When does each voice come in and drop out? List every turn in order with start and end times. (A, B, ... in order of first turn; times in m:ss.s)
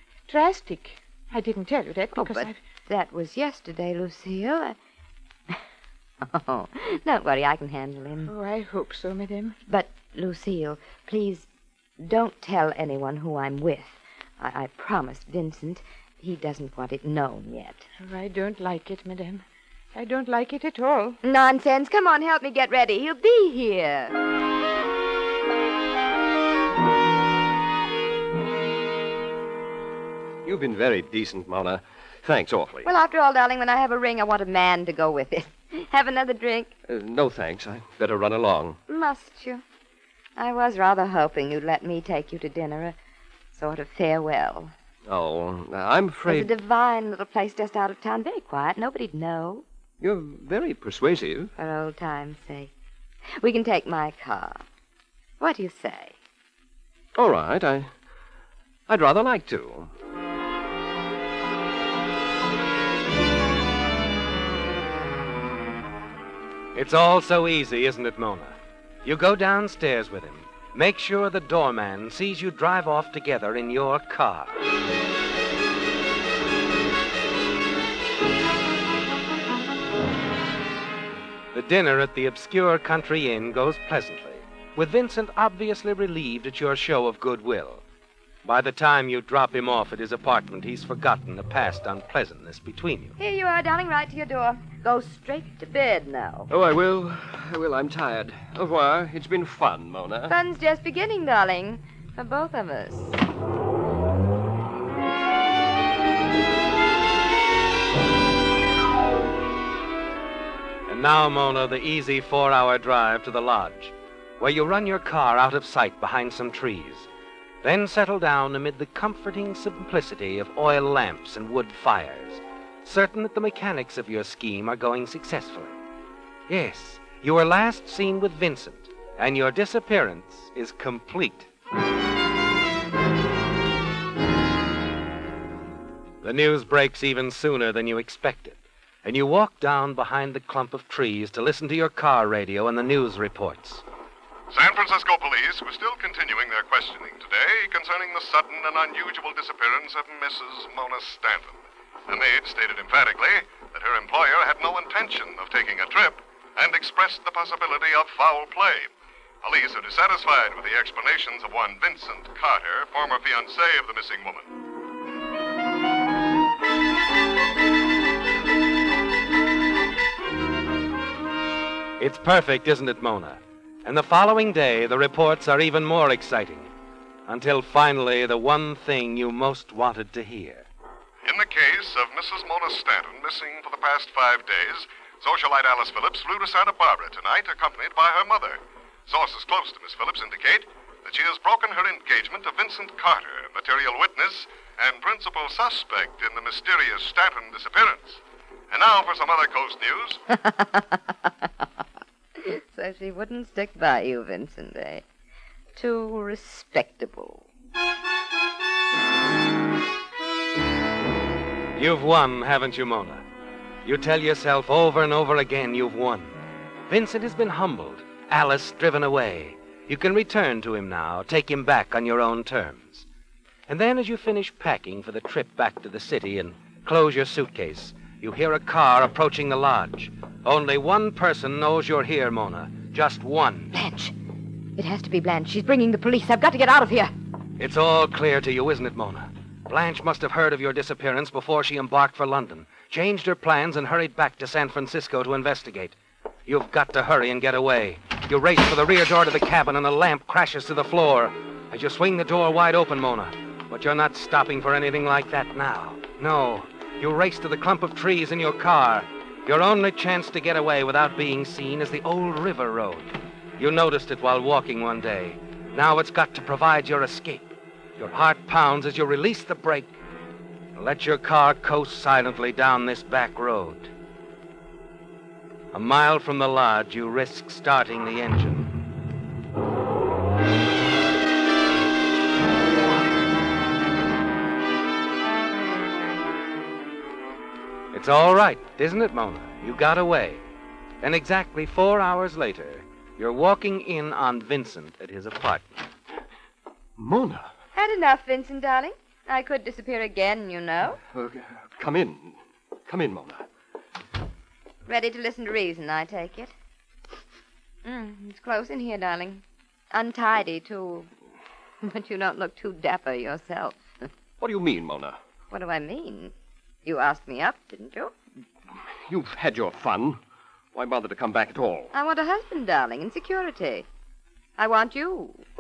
0:00.3-0:02.6 A
0:02.2-0:04.8 B
0:06.2-0:08.3 B
0:08.2-0:09.6 A
0:09.7-0:11.5 B
0:12.0-0:17.9 B
0:18.0-0:21.2 A
0:21.2-0:24.2 B
0:30.4-0:32.9 C
0:32.9-0:36.7 B
0:36.9-0:38.8 C
0:38.9-0:39.6 B
0:40.4-0:43.0 B
0:43.6-0:44.7 B
0:45.1-0:46.5 C
0:46.3-0:49.6 B
0:50.0-0:51.5 C
0:51.6-0:52.7 B
0:53.4-0:54.6 B
0:55.4-0:56.2 B
0:57.2-0:57.9 C
0:58.9-0:59.9 C
1:06.7-1:14.6 D
1:21.5-1:27.8 D
1:28.4-1:33.2 D
1:33.2-1:36.5 B
1:36.5-1:40.4 C
1:40.3-1:43.2 B
1:50.9-1:57.1 D
1:57.6-2:05.8 D
2:06.5-2:11.5 D
2:16.2-2:23.8 D
2:24.5-2:38.9 E
2:39.4-2:44.5 E
2:52.0-2:56.7 D
2:57.3-3:00.7 D
3:01.2-3:20.2 E
3:20.3-3:21.5 B
3:22.4-3:25.0 B
3:25.8-3:27.5 B
3:31.8-3:33.2 D
3:33.8-3:36.4 D
3:36.9-3:43.1 D
3:43.7-3:53.7 D
3:53.7-3:54.1 B
3:54.8-3:57.1 B
3:57.6-4:06.0 D
4:06.5-4:29.9 D
4:30.8-4:33.9 D
4:35.7-4:38.7 D
4:47.9-4:50.4 D
4:51.0-4:55.9 D
4:57.0-4:57.5 C
4:57.8-5:01.0 B
5:01.1-5:03.5 C
5:04.9-5:06.5 B
5:07.8-5:11.1 B
5:11.8-5:14.1 B
5:14.4-5:15.2 C
5:15.5-5:16.3 B
5:16.8-5:18.1 B
5:19.0-5:20.2 C
5:20.7-5:21.9 C
5:21.9-5:23.9 B
5:24.6-5:25.4 B